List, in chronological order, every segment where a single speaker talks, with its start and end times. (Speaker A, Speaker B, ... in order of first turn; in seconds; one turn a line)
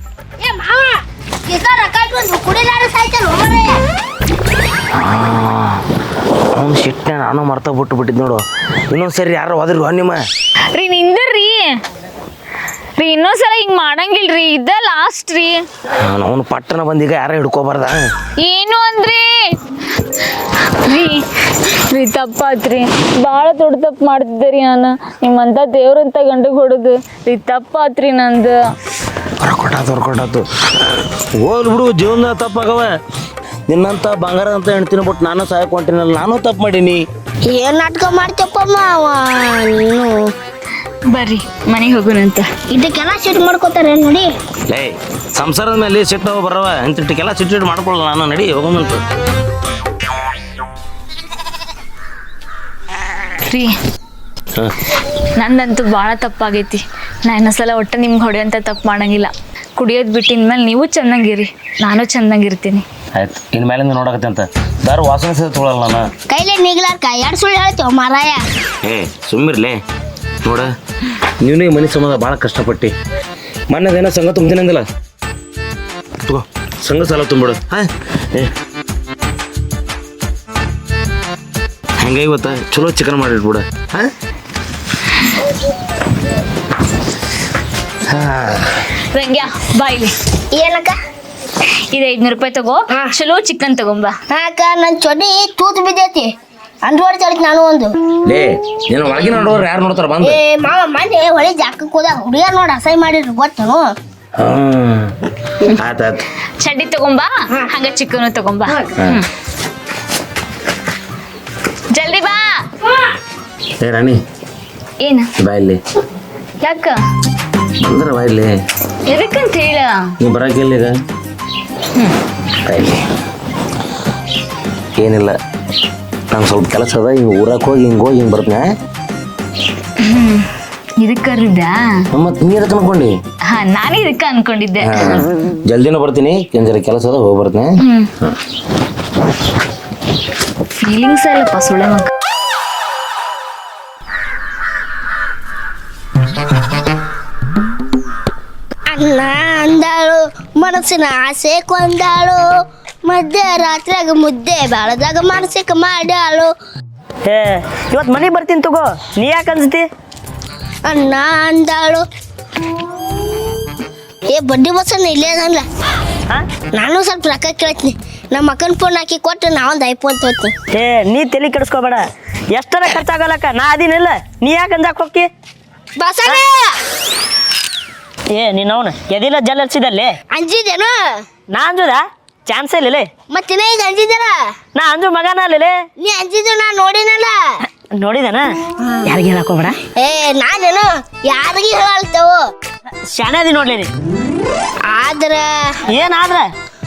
Speaker A: 0.4-3.8
Speaker B: 5.0-5.8
Speaker B: 6.5-10.2
Speaker C: 10.7-11.7
Speaker C: 13.0-15.6
Speaker B: 16.0-18.0
Speaker C: 18.4-19.3
Speaker C: 20.9-21.2
Speaker C: 21.9-28.5
Speaker B: 29.4-30.4
Speaker B: 31.4-32.9
Speaker B: 33.7-37.0
Speaker A: 37.5-40.2
Speaker C: 41.1-42.5
Speaker A: 42.7-44.3
Speaker B: 44.7-49.0
Speaker C: 55.4-62.8
Speaker B: 63.1-66.1
Speaker A: 66.3-68.4
Speaker B: 68.8-69.8
Speaker B: 70.4-70.7
Speaker B: 71.4-72.9
Speaker B: 73.7-74.8
Speaker B: 76.2-78.5
Speaker B: 82.0-84.1
Speaker B: 88.1-88.8
Speaker C: 89.1-90.1
Speaker A: 90.5-91.0
Speaker C: 91.9-94.1
Speaker A: 94.3-96.3
Speaker A: 96.8-97.9
Speaker B: 98.2-100.4
Speaker A: 100.2-103.9
Speaker B: 104.4-105.1
Speaker B: 105.7-106.2
Speaker C: 106.6-109.2
Speaker C: 111.9-112.5
Speaker B: 113.8-114.2
Speaker C: 115.0-115.3
Speaker B: 115.4-115.8
Speaker C: 116.6-117.0
Speaker B: 117.8-118.5
Speaker C: 119.0-120.1
Speaker B: 120.2-120.9
Speaker B: 122.7-123.0
Speaker B: 125.0-125.3
Speaker B: 126.3-128.7
Speaker C: 130.0-130.5
Speaker C: 131.0-132.1
Speaker B: 132.1-133.1
Speaker C: 133.5-135.2
Speaker B: 134.8-137.7
Speaker C: 137.8-138.1
Speaker C: 140.8-142.1
Speaker A: 148.9-152.4
Speaker A: 153.1-156.5
Speaker D: 157.2-159.9
Speaker A: 160.8-162.0
Speaker A: 164.3-165.6
Speaker A: 166.7-170.5
Speaker D: 170.7-175.3
Speaker A: 176.0-176.8
Speaker D: 178.3-180.1
Speaker A: 180.3-181.2
Speaker D: 181.5-183.1
Speaker A: 183.3-184.4
Speaker D: 184.8-185.7
Speaker A: 186.0-187.4
Speaker D: 187.9-189.8
Speaker A: 189.9-192.4
Speaker D: 193.1-193.9
Speaker A: 194.9-195.7
Speaker D: 195.9-196.5